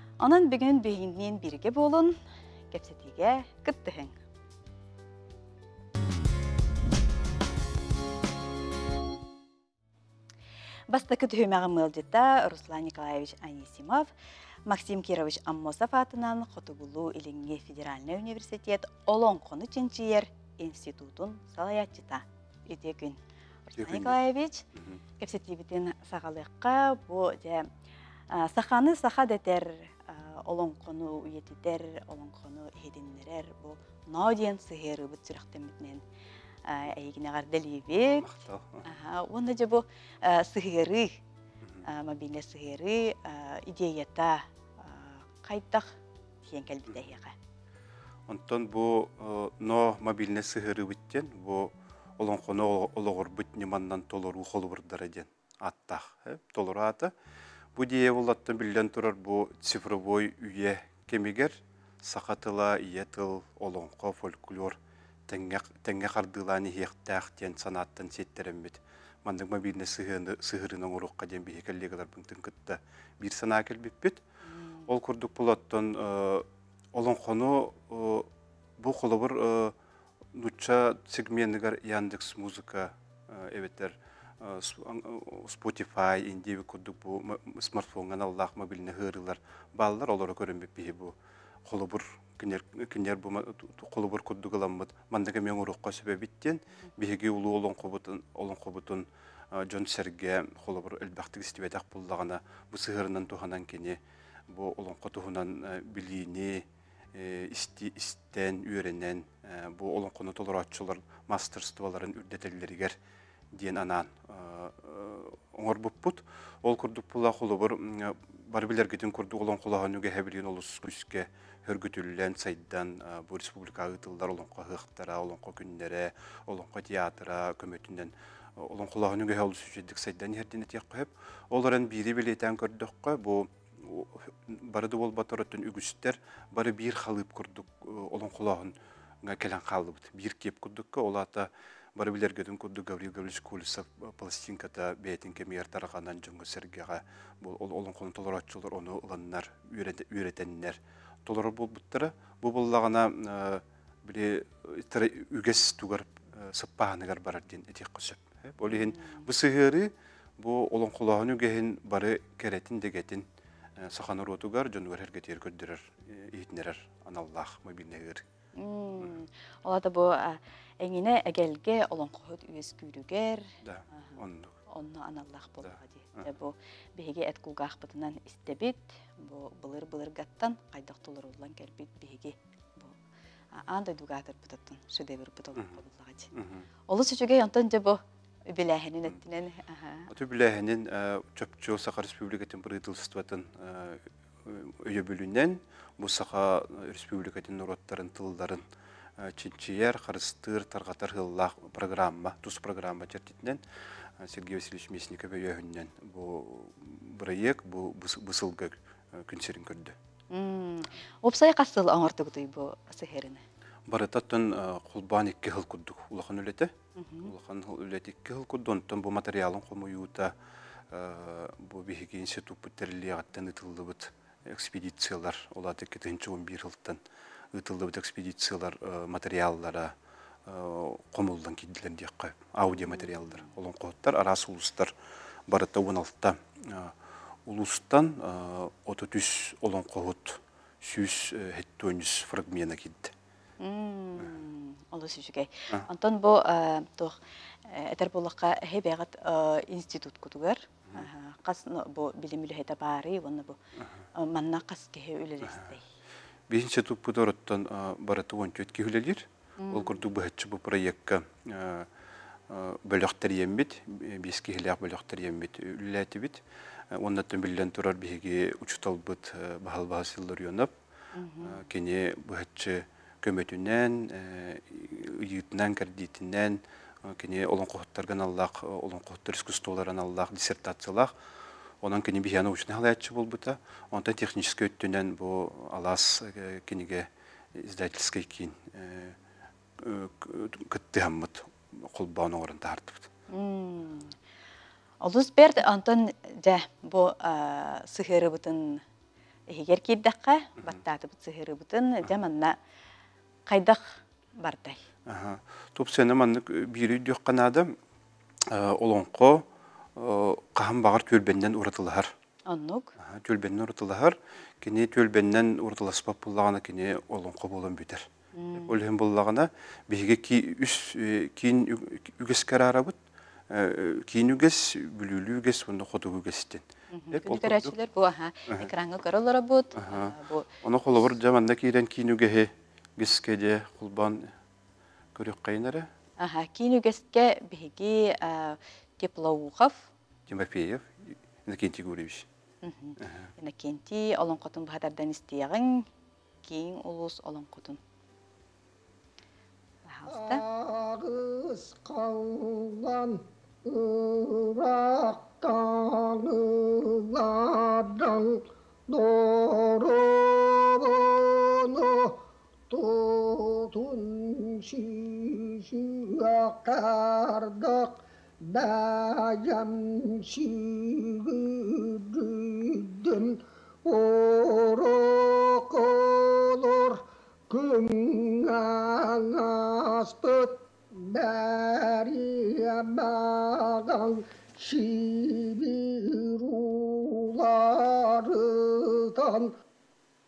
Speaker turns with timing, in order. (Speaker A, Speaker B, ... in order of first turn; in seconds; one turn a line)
Speaker A: 0.2-2.1
Speaker A: 2.7-4.1
Speaker A: 10.9-14.1
Speaker A: 14.7-23.2
Speaker A: 23.7-24.6
Speaker B: 23.8-24.2
Speaker B: 24.7-25.0
Speaker A: 25.2-27.7
Speaker A: 28.3-36.0
Speaker A: 36.6-38.3
Speaker B: 38.2-38.8
Speaker A: 38.8-41.2
Speaker A: 41.8-45.9
Speaker A: 46.5-47.3
Speaker B: 48.3-57.1
Speaker B: 57.7-64.8
Speaker B: 65.3-74.2
Speaker A: 74.4-74.9
Speaker B: 74.9-79.7
Speaker B: 80.3-91.1
Speaker B: 91.7-113.0
Speaker B: 113.5-168.2
Speaker A: 158.7-159.2
Speaker A: 168.6-182.9
Speaker B: 173.6-174.6
Speaker B: 175.7-176.3
Speaker A: 183.5-186.3
Speaker B: 186.3-186.7
Speaker A: 186.9-190.1
Speaker B: 190.1-198.6
Speaker B: 199.2-203.6
Speaker B: 204.2-209.9
Speaker A: 210.3-213.4
Speaker B: 213.9-216.7
Speaker A: 217.0-217.3
Speaker B: 217.2-220.3
Speaker B: 220.9-227.0
Speaker B: 227.5-229.9
Speaker B: 230.4-234.9
Speaker A: 232.7-233.5
Speaker B: 235.5-236.9
Speaker B: 237.4-243.1
Speaker A: 243.6-253.6
Speaker B: 253.8-254.0
Speaker A: 254.2-255.8
Speaker B: 256.5-261.9
Speaker A: 259.6-260.0
Speaker B: 262.5-266.4
Speaker B: 266.9-270.7
Speaker A: 271.1-271.6
Speaker B: 271.4-281.1
Speaker B: 281.8-289.2
Speaker B: 289.8-293.1
Speaker A: 293.3-294.1
Speaker A: 295.0-298.8
Speaker A: 299.5-302.5
Speaker A: 303.4-304.8
Speaker B: 305.1-307.8
Speaker B: 308.5-309.4
Speaker B: 309.9-312.1
Speaker A: 312.5-312.9
Speaker B: 313.0-318.1
Speaker A: 318.3-318.7
Speaker B: 318.6-322.9
Speaker B: 323.5-327.7
Speaker A: 326.9-330.5
Speaker B: 329.8-334.3
Speaker B: 335.1-335.9
Speaker A: 336.2-339.9
Speaker B: 340.3-342.2
Speaker A: 342.6-345.9
Speaker B: 343.0-343.3
Speaker A: 346.4-347.8
Speaker A: 349.9-350.4
Speaker C: 350.1-389.6